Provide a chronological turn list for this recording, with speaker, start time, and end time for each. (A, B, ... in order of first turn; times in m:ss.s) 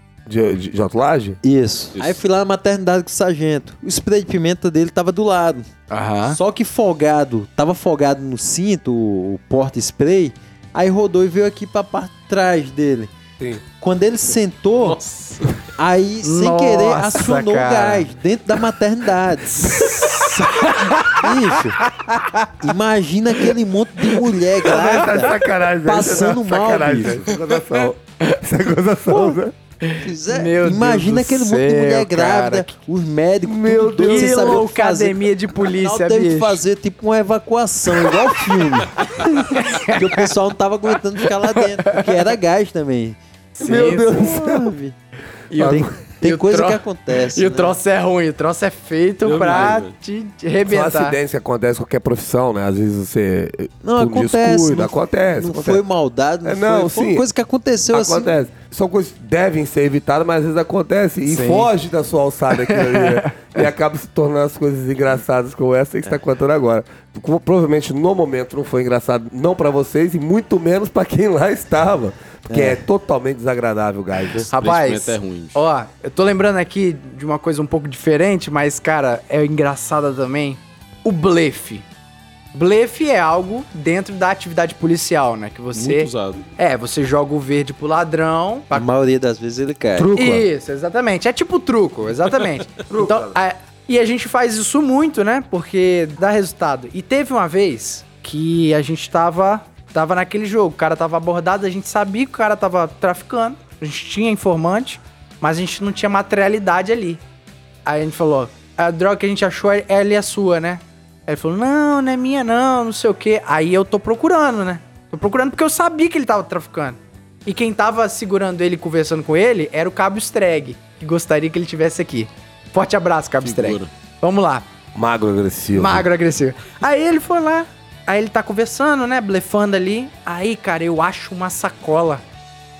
0:00.3-0:01.4 A
0:01.4-0:05.7 B
0:05.9-0:06.4 C
0:06.3-0:13.1 B
0:13.7-0:15.0 B
0:14.8-0:15.5 D
0:15.8-0:21.8 B
0:16.2-0:18.1 C
0:19.5-0:22.7 C
0:22.6-0:27.2 B
0:24.1-0:25.2 C
0:24.6-0:29.5 A
0:27.3-0:27.8 C
0:29.1-0:29.4 B
0:29.8-0:32.7 C
0:30.0-0:45.0 B
0:33.4-0:34.6 A
0:34.0-0:36.6 C
0:39.2-0:40.3 C
0:41.6-0:42.2 C
0:43.6-0:44.4 C
0:43.6-0:44.7 A
0:45.5-0:51.2 C
0:45.5-0:45.9 A
0:46.2-0:47.8 B
0:49.2-0:49.9 D
0:50.6-0:55.8 A
0:53.8-0:58.3 B
0:56.4-0:57.2 A
0:57.9-1:14.5 A
1:01.3-1:01.7 C
1:02.6-1:03.6 C
1:12.5-1:12.8 B
1:14.5-1:15.6 D
1:14.5-1:21.8 C
1:22.5-1:28.9 C
1:25.7-1:26.4 D
1:28.7-1:30.1 B
1:29.9-1:30.5 A
1:30.2-1:47.2 C
1:32.9-1:33.3 A
1:47.8-2:04.6 C
2:03.4-2:03.9 D
2:04.9-2:06.1 A
2:05.7-2:12.2 C